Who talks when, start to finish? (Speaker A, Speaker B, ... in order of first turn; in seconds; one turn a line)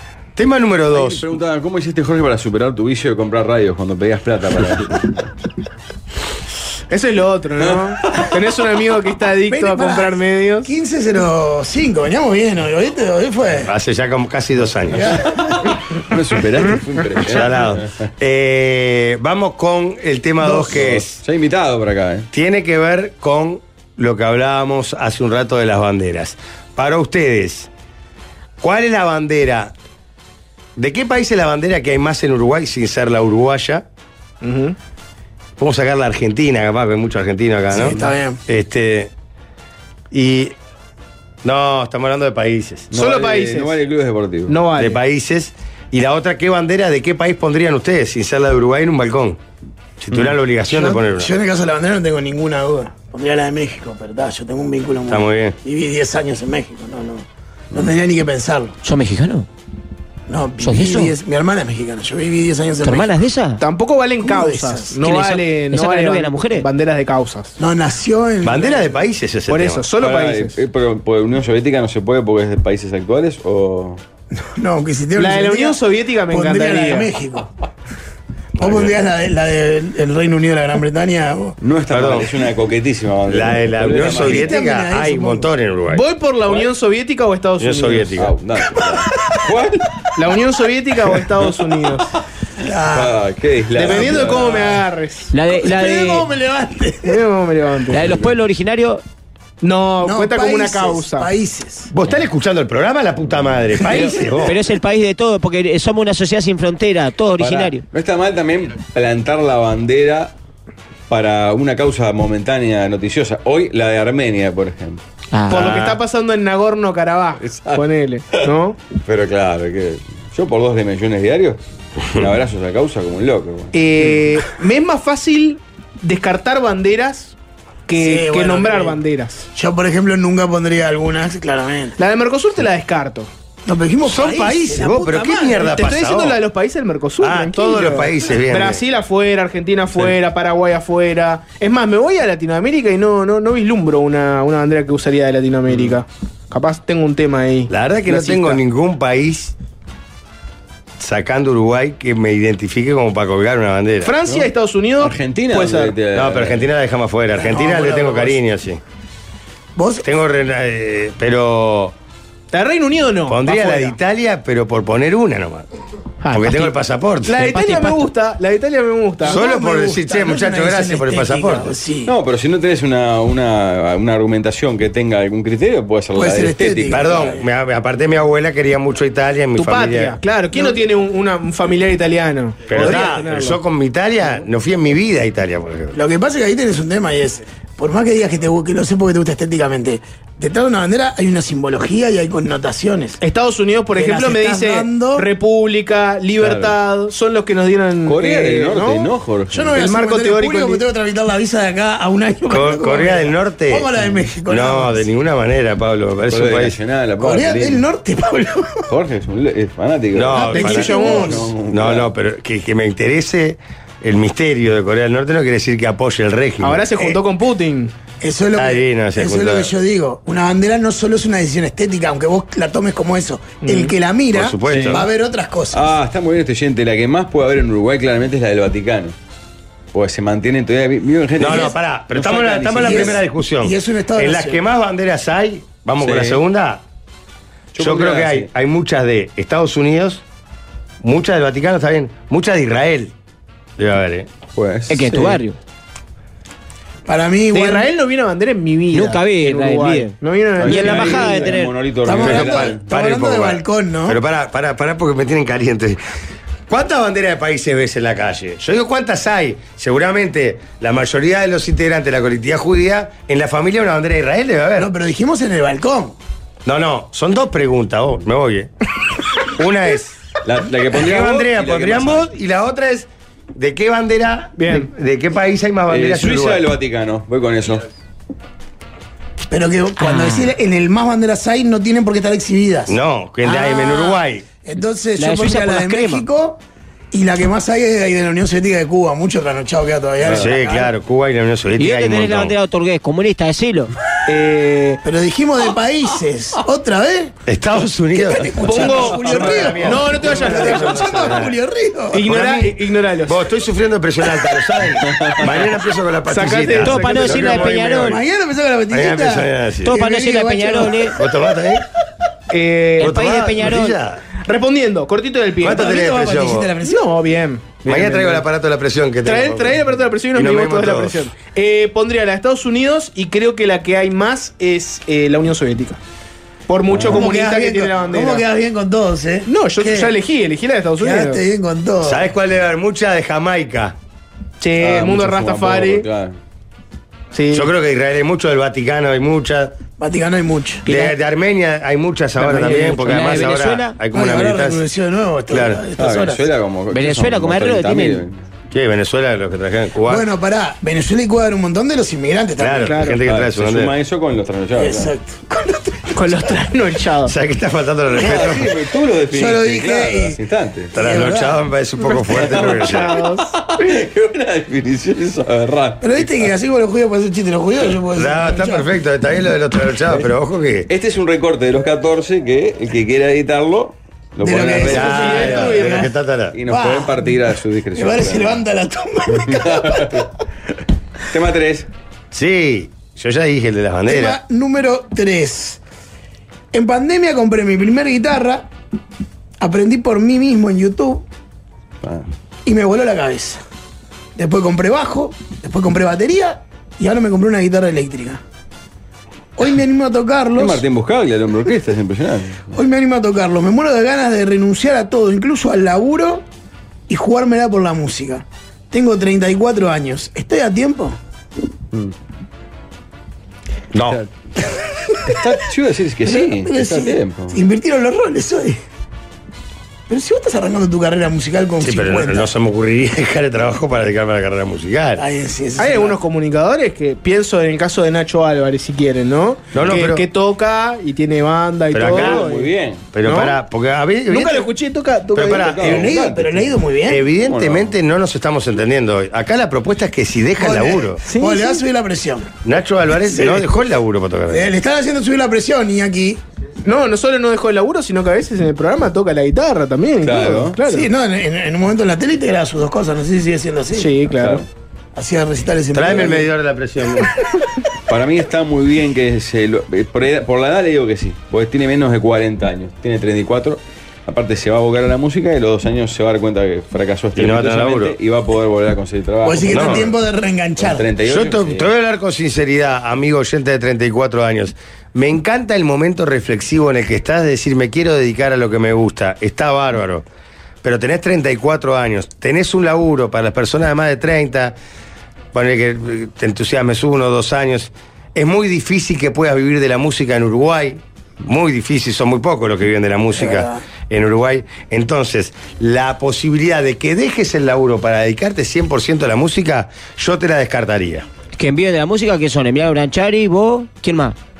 Speaker A: 0.4-1.3
Speaker B: 0.9-5.3
Speaker C: 6.9-10.7
Speaker B: 7.6-8.3
Speaker D: 9.5-13.7
Speaker A: 13.6-15.2
Speaker D: 14.9-15.6
Speaker B: 15.4-18.1
Speaker A: 17.3-21.2
Speaker D: 20.4-20.8
Speaker B: 20.7-22.3
Speaker A: 22.3-27.7
Speaker A: 28.6-29.7
Speaker A: 30.8-33.9
Speaker C: 34.4-34.8
Speaker A: 35.6-39.1
Speaker D: 37.7-38.4
Speaker A: 40.1-40.5
Speaker A: 41.4-42.9
Speaker B: 42.9-44.6
Speaker C: 42.9-43.8
Speaker C: 44.5-45.0
Speaker A: 44.8-49.4
Speaker A: 50.0-51.3
Speaker D: 50.7-58.8
Speaker A: 55.1-55.6
Speaker E: 58.8-59.5
Speaker D: 60.3-63.1
Speaker E: 60.6-61.1
Speaker E: 62.8-63.6
Speaker C: 63.6-67.6
Speaker D: 64.2-65.0
Speaker E: 65.0-66.7
Speaker D: 67.6-68.9
Speaker A: 68.4-69.8
Speaker C: 69.5-70.6
Speaker B: 70.0-74.0
Speaker D: 74.4-77.5
Speaker C: 75.2-77.1
Speaker A: 78.6-79.0
Speaker D: 78.6-81.6
Speaker B: 81.6-84.6
Speaker A: 81.9-82.3
Speaker A: 83.3-86.0
Speaker D: 84.0-85.5
Speaker C: 85.9-88.2
Speaker A: 87.6-88.3
Speaker B: 88.2-89.9
Speaker C: 90.2-92.1
Speaker D: 92.6-93.2
Speaker B: 92.9-94.8
Speaker C: 93.7-95.3
Speaker D: 93.9-94.5
Speaker E: 95.3-96.3
Speaker D: 95.5-97.2
Speaker C: 97.0-98.1
Speaker E: 97.9-99.0
Speaker C: 99.6-101.3
Speaker D: 100.0-101.9
Speaker A: 101.9-104.6
Speaker D: 103.8-104.4
Speaker E: 103.9-107.8
Speaker B: 107.4-110.3
Speaker B: 111.1-115.0
Speaker E: 115.3-115.7
Speaker C: 115.5-118.8
Speaker A: 115.5-116.0
Speaker B: 117.4-118.5
Speaker B: 119.0-123.7
Speaker C: 123.7-127.3
Speaker C: 127.9-129.5
Speaker D: 128.0-129.0
Speaker D: 129.6-132.0
Speaker C: 132.0-133.3
Speaker D: 133.7-135.7
Speaker A: 134.0-136.4
Speaker C: 135.6-148.6
Speaker A: 137.2-138.8
Speaker B: 145.7-145.9
Speaker A: 147.7-149.6
Speaker A: 151.0-154.1
Speaker C: 154.0-156.0
Speaker B: 154.3-156.7
Speaker A: 156.2-158.8
Speaker D: 157.3-158.4
Speaker D: 159.8-160.1
Speaker A: 160.0-161.9
Speaker C: 162.5-164.0
Speaker A: 163.3-165.7
Speaker C: 166.2-166.7
Speaker A: 166.3-167.5
Speaker C: 167.2-169.4
Speaker A: 169.2-171.8
Speaker D: 169.2-172.1
Speaker B: 172.1-177.3
Speaker D: 176.2-177.4
Speaker A: 176.9-180.2
Speaker C: 179.6-183.6
Speaker D: 180.5-180.8
Speaker A: 182.7-186.0
Speaker D: 182.8-183.1
Speaker D: 185.9-193.2
Speaker C: 193.2-199.1
Speaker D: 193.9-195.3
Speaker B: 196.4-196.7
Speaker B: 198.1-199.8
Speaker D: 199.5-205.1
Speaker C: 199.7-200.8
Speaker A: 202.5-203.9
Speaker A: 204.5-206.8
Speaker B: 206.3-207.8
Speaker D: 207.2-208.8
Speaker B: 208.9-212.1
Speaker A: 210.1-217.2
Speaker D: 210.3-211.5
Speaker C: 210.4-211.5
Speaker C: 216.6-217.9
Speaker D: 218.2-225.9
Speaker A: 218.6-219.7
Speaker C: 223.6-223.9
Speaker A: 224.3-225.1
Speaker B: 224.7-225.0
Speaker B: 225.7-229.2
Speaker B: 229.9-233.2
Speaker A: 231.4-236.8
Speaker D: 231.4-231.7
Speaker D: 232.8-234.6
Speaker B: 236.0-236.4
Speaker B: 237.7-238.5
Speaker A: 237.8-240.2
Speaker A: 241.0-243.1
Speaker A: 243.8-244.3
Speaker B: 244.6-245.4
Speaker E: 244.9-245.6
Speaker D: 247.1-247.9
Speaker C: 247.5-251.6
Speaker E: 248.9-251.7
Speaker B: 250.6-252.8
Speaker D: 252.0-254.2
Speaker A: 252.1-256.0
Speaker A: 256.7-264.9
Speaker D: 264.8-266.2
Speaker A: 266.6-268.7
Speaker A: 269.4-270.2
Speaker B: 270.4-272.3
Speaker A: 270.9-276.7
Speaker C: 274.6-274.9
Speaker B: 275.9-277.9
Speaker D: 279.5-286.6
Speaker E: 280.0-280.5
Speaker A: 282.9-284.5
Speaker E: 285.2-286.2
Speaker D: 287.1-290.9
Speaker B: 290.2-290.5
Speaker A: 290.3-292.5
Speaker E: 291.8-293.9
Speaker C: 294.3-295.0
Speaker D: 295.0-297.4
Speaker A: 297.5-301.6
Speaker D: 298.1-302.5
Speaker C: 298.6-301.1
Speaker B: 299.3-299.5
Speaker C: 302.1-303.4
Speaker A: 302.3-302.7
Speaker A: 303.3-308.2
Speaker B: 305.1-305.6
Speaker C: 306.3-307.8
Speaker E: 306.7-308.2
Speaker D: 308.0-311.2
Speaker A: 308.9-310.0
Speaker E: 309.8-311.2
Speaker A: 311.2-311.8
Speaker C: 312.5-313.2
Speaker A: 313.0-314.2
Speaker E: 313.0-314.0
Speaker C: 314.4-315.9
Speaker A: 315.6-316.7
Speaker D: 315.7-317.1
Speaker C: 316.8-318.4
Speaker A: 317.9-319.8
Speaker C: 319.2-326.0
Speaker A: 320.3-321.3
Speaker C: 326.7-328.4
Speaker B: 326.9-327.2
Speaker D: 327.1-330.2
Speaker C: 329.5-331.4
Speaker D: 331.0-332.3
Speaker A: 332.0-334.0
Speaker C: 334.6-336.1
Speaker B: 334.8-336.4
Speaker C: 337.3-337.7
Speaker A: 337.5-339.8
Speaker D: 340.0-340.9
Speaker E: 340.9-341.1
Speaker A: 340.9-344.8
Speaker C: 342.5-343.0
Speaker E: 342.5-344.0
Speaker D: 344.1-346.4
Speaker A: 345.5-345.8
Speaker B: 346.0-348.4
Speaker E: 346.9-348.2
Speaker A: 348.7-350.3
Speaker D: 350.1-353.1
Speaker A: 352.6-353.9
Speaker C: 352.8-353.2
Speaker B: 353.2-355.1
Speaker D: 354.8-356.6
Speaker C: 356.1-357.3
Speaker A: 357.2-358.7
Speaker B: 358.1-360.9
Speaker D: 359.3-360.4
Speaker D: 360.9-361.6
Speaker A: 360.9-363.2
Speaker B: 362.3-366.5
Speaker C: 362.4-363.5
Speaker D: 366.0-368.9
Speaker A: 368.1-370.9
Speaker B: 370.9-375.6
Speaker D: 374.4-376.1
Speaker A: 374.6-376.6
Speaker C: 375.0-376.1
Speaker B: 376.5-378.6
Speaker D: 376.7-377.4
Speaker D: 377.9-380.3
Speaker B: 379.3-380.3
Speaker B: 381.3-381.9
Speaker A: 382.3-384.4
Speaker D: 384.1-385.8
Speaker D: 386.7-388.7
Speaker D: 389.6-391.3
Speaker B: 392.0-392.3
Speaker D: 392.7-393.6
Speaker D: 394.4-398.4
Speaker D: 399.6-400.8
Speaker B: 400.6-402.8
Speaker D: 402.7-406.4
Speaker D: 407.1-411.2
Speaker A: 413.9-414.2
Speaker B: 415.3-417.6
Speaker D: 416.2-418.8
Speaker D: 420.1-422.5
Speaker A: 421.8-425.2
Speaker D: 425.2-426.2
Speaker C: 425.8-433.6
Speaker A: 429.7-430.2
Speaker A: 431.9-432.4
Speaker B: 432.0-433.1
Speaker A: 433.1-434.7
Speaker C: 434.3-435.8
Speaker A: 435.3-436.2
Speaker B: 435.5-436.8
Speaker D: 435.8-437.3
Speaker A: 437.1-441.2
Speaker B: 437.4-437.9
Speaker D: 440.6-442.5
Speaker C: 441.3-441.8
Speaker A: 442.6-444.7
Speaker D: 443.3-443.6
Speaker D: 444.5-446.4
Speaker C: 446.9-451.1
Speaker B: 450.2-450.8
Speaker D: 450.9-454.2
Speaker C: 453.9-454.6
Speaker B: 454.3-454.7
Speaker D: 455.1-456.5
Speaker A: 455.9-457.3
Speaker B: 458.1-470.2
Speaker A: 467.4-468.2
Speaker D: 469.4-471.1
Speaker A: 469.7-470.1
Speaker B: 470.8-471.9
Speaker A: 471.2-480.3
Speaker A: 480.8-484.8
Speaker A: 485.5-501.3
Speaker D: 493.4-493.8
Speaker E: 501.6-504.4